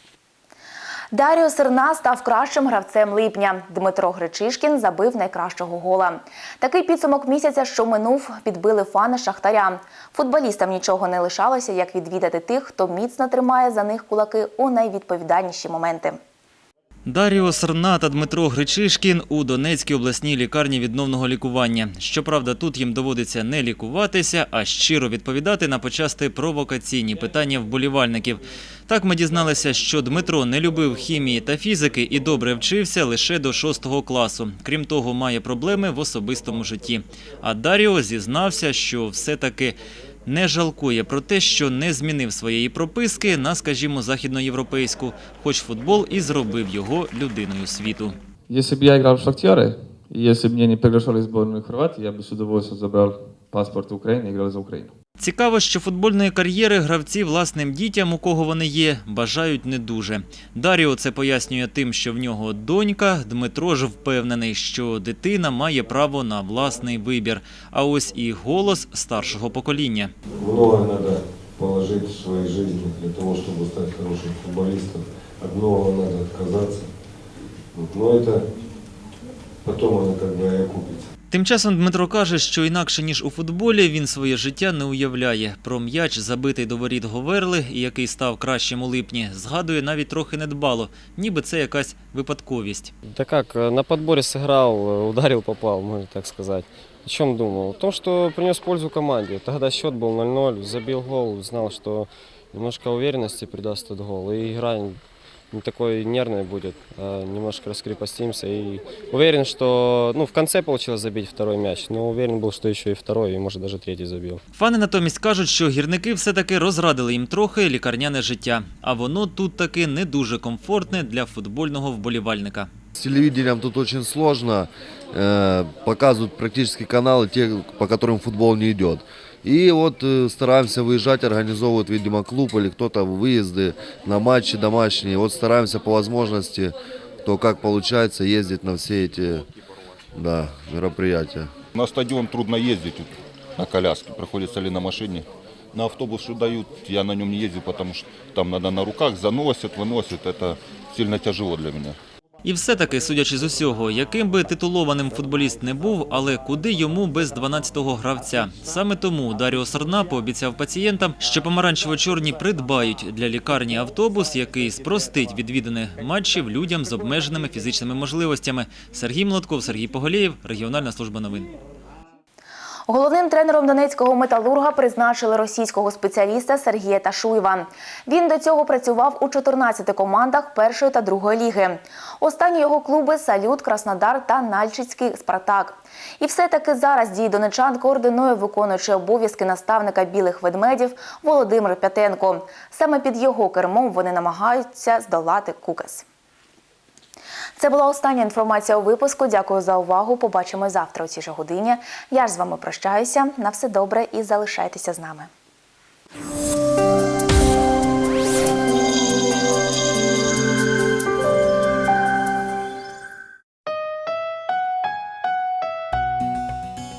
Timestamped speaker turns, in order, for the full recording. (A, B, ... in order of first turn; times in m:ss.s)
0:01.1-0:16.2 A
0:17.0-0:48.2 B
0:48.5-0:54.9 C
0:55.2-1:10.1 B
1:10.4-1:16.9 D
1:17.8-1:18.4 D
1:19.6-1:21.0 D
1:21.3-1:32.9 B
1:33.1-1:45.0 E
1:45.5-1:54.4 E
1:54.5-2:02.7 B
2:02.9-2:19.5 F
2:20.2-2:21.5 F
2:21.8-2:32.0 G
2:32.4-2:51.5 B
2:52.9-3:16.1 A
3:17.6-3:25.3 A